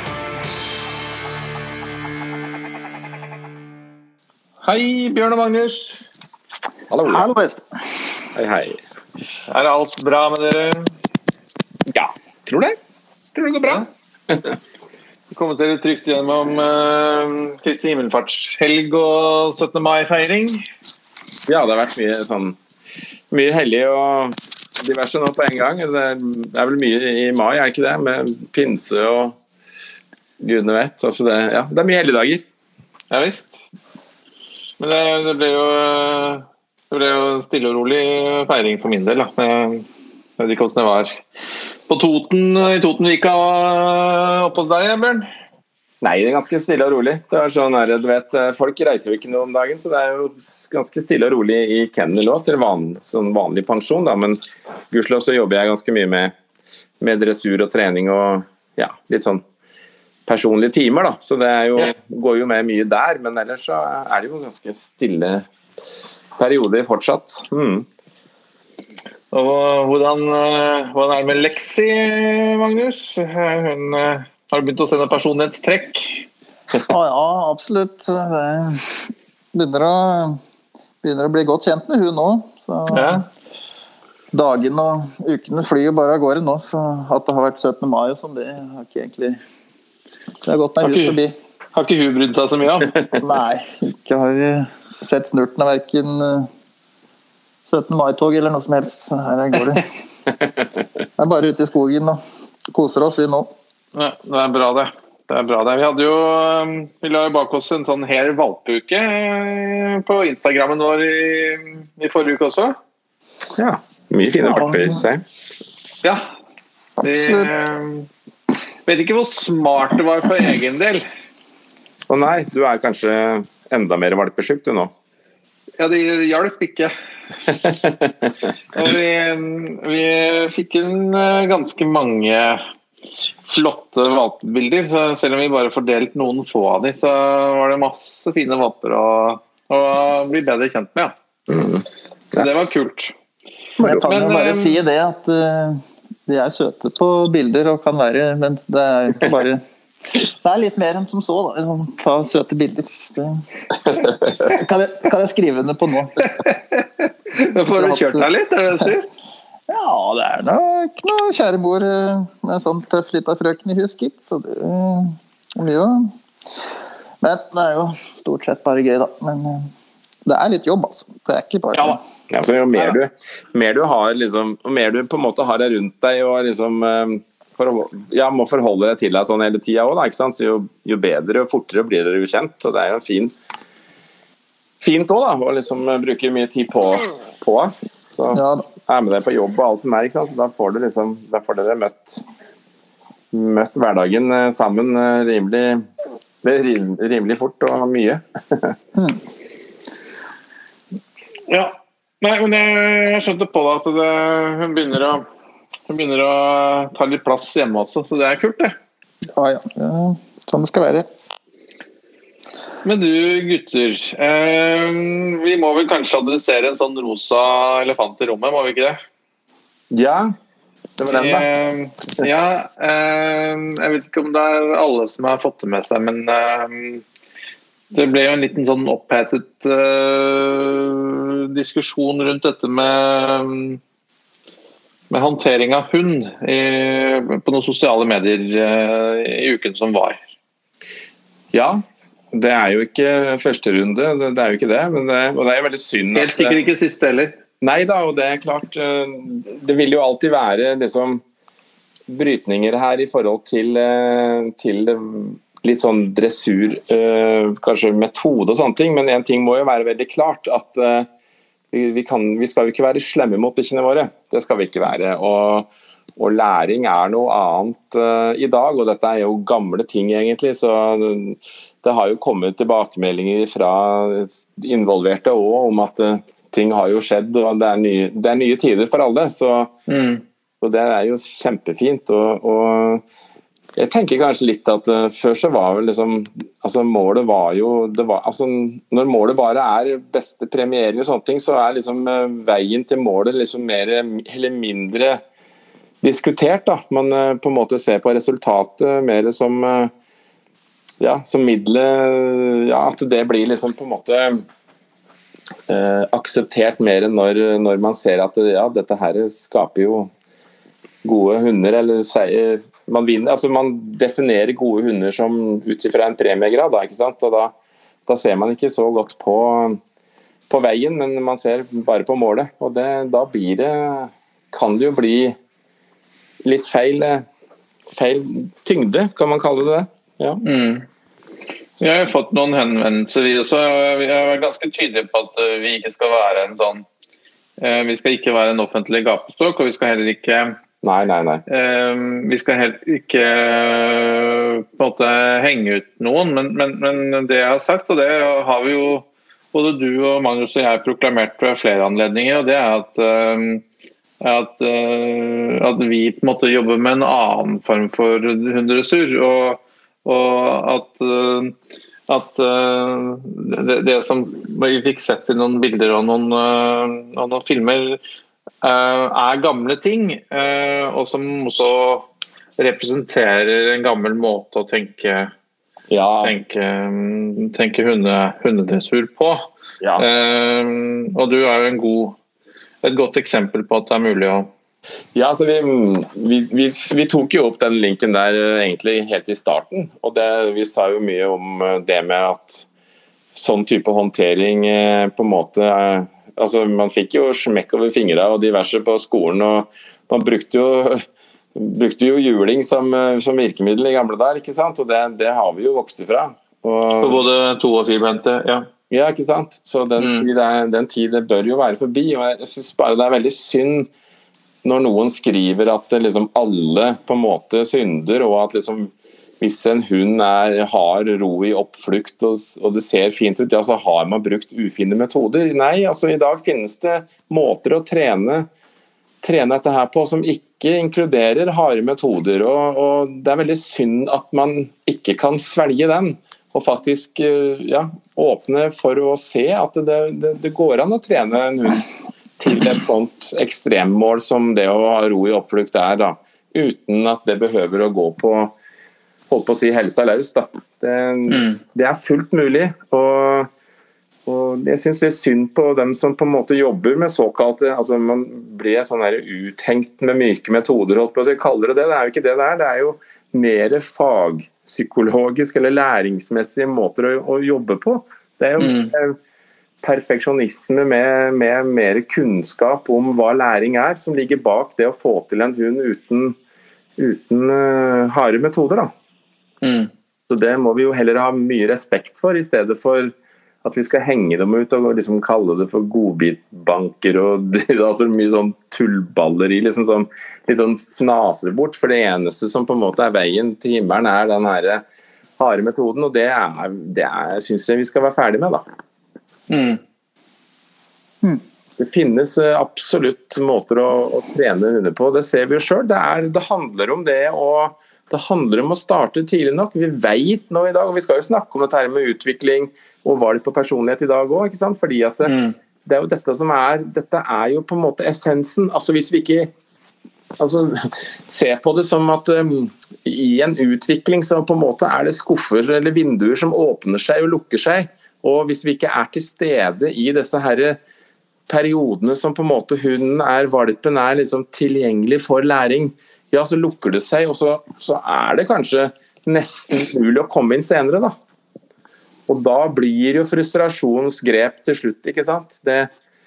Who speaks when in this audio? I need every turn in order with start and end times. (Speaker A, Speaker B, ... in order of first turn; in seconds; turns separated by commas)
Speaker A: 4.6-6.0, Speaker B: 6.9-7.3, Speaker C: 7.1-7.6, Speaker B: 8.3-8.8, Speaker A: 9.5-10.9, Speaker B: 11.9-12.8, Speaker B: 13.3-14.5, Speaker A: 15.3-20.6, Speaker B: 21.5-22.6, Speaker B: 23.3-29.4, Speaker B: 30.4-32.4, Speaker A: 33.1-33.6, Speaker A: 34.8-39.9, Speaker A: 40.4-41.1, Speaker A: 41.9-45.3, Speaker B: 46.0-54.4, Speaker B: 54.9-56.3, Speaker B: 57.0-59.4, Speaker B: 60.3-65.4, Speaker B: 66.4-67.9, Speaker A: 69.3-76.3, Speaker C: 76.9-80.4, Speaker C: 81.0-83.2, Speaker A: 82.9-83.2, Speaker C: 84.3-89.4, Speaker C: 90.4-91.3, Speaker A: 90.8-91.2, Speaker A: 91.7-93.0, Speaker C: 93.2-96.5, Speaker C: 97.7-99.9, Speaker C: 101.2-102.2, Speaker C: 102.7-103.5, Speaker A: 103.9-112.8, Speaker B: 113.6-115.2, Speaker C: 114.4-115.0, Speaker A: 117.0-118.1, Speaker C: 117.0-117.5, Speaker A: 118.8-121.0, Speaker B: 122.1-124.9, Speaker A: 125.8-126.9, Speaker A: 128.7-132.6, Speaker A: 133.4-141.1, Speaker B: 141.5-141.8, Speaker A: 142.3-143.1, Speaker C: 143.8-153.4, Speaker A: 143.9-144.8, Speaker C: 154.0-156.2, Speaker A: 156.4-159.1, Speaker C: 157.6-158.3, Speaker C: 159.7-166.1, Speaker C: 167.2-169.7, Speaker C: 170.2-172.0, Speaker B: 172.3-183.3, Speaker B: 184.8-192.2, Speaker C: 188.3-188.7, Speaker B: 193.3-195.8, Speaker B: 196.4-198.8, Speaker A: 201.5-205.2, Speaker A: 205.9-208.8, Speaker C: 209.3-211.1, Speaker A: 212.8-219.0, Speaker B: 219.9-220.3, Speaker B: 221.0-221.4, Speaker A: 221.1-227.0, Speaker A: 227.9-233.8, Speaker A: 235.1-240.2, Speaker B: 241.5-246.6, Speaker A: 246.1-247.3, Speaker B: 247.6-251.2, Speaker B: 252.1-261.1, Speaker B: 261.7-279.7, Speaker A: 279.9-280.2, Speaker B: 280.6-283.0, Speaker B: 283.8-295.2, Speaker B: 296.0-299.9, Speaker B: 301.0-304.4, Speaker B: 305.7-310.1, Speaker B: 311.0-317.5, Speaker B: 318.1-319.8, Speaker B: 320.5-325.3, Speaker B: 326.4-327.2, Speaker B: 327.9-330.4, Speaker A: 330.4-330.9, Speaker A: 331.8-336.9, Speaker A: 337.6-340.6, Speaker B: 340.8-341.4, Speaker A: 341.5-353.6, Speaker A: 354.2-361.5, Speaker A: 362.1-368.0, Speaker A: 368.6-375.3, Speaker B: 375.9-376.3, Speaker A: 376.2-382.2, Speaker B: 379.8-380.1, Speaker A: 382.8-384.5, Speaker B: 385.1-392.7, Speaker B: 393.3-401.0, Speaker B: 401.5-407.2, Speaker A: 407.0-408.7, Speaker B: 408.9-413.9, Speaker A: 410.0-410.3, Speaker B: 414.6-428.5, Speaker B: 429.2-441.9, Speaker B: 442.4-448.5, Speaker B: 449.3-453.5, Speaker A: 451.3-451.6, Speaker B: 454.3-469.1, Speaker A: 468.6-468.9, Speaker B: 469.8-476.4, Speaker B: 477.0-478.9, Speaker A: 479.6-479.9, Speaker B: 480.3-494.8, Speaker B: 495.4-498.6, Speaker A: 499.5-499.8, Speaker B: 501.8-515.3, Speaker A: 515.2-515.5, Speaker B: 515.9-519.5, Speaker B: 520.4-530.8, Speaker B: 531.5-541.1, Speaker B: 542.3-545.9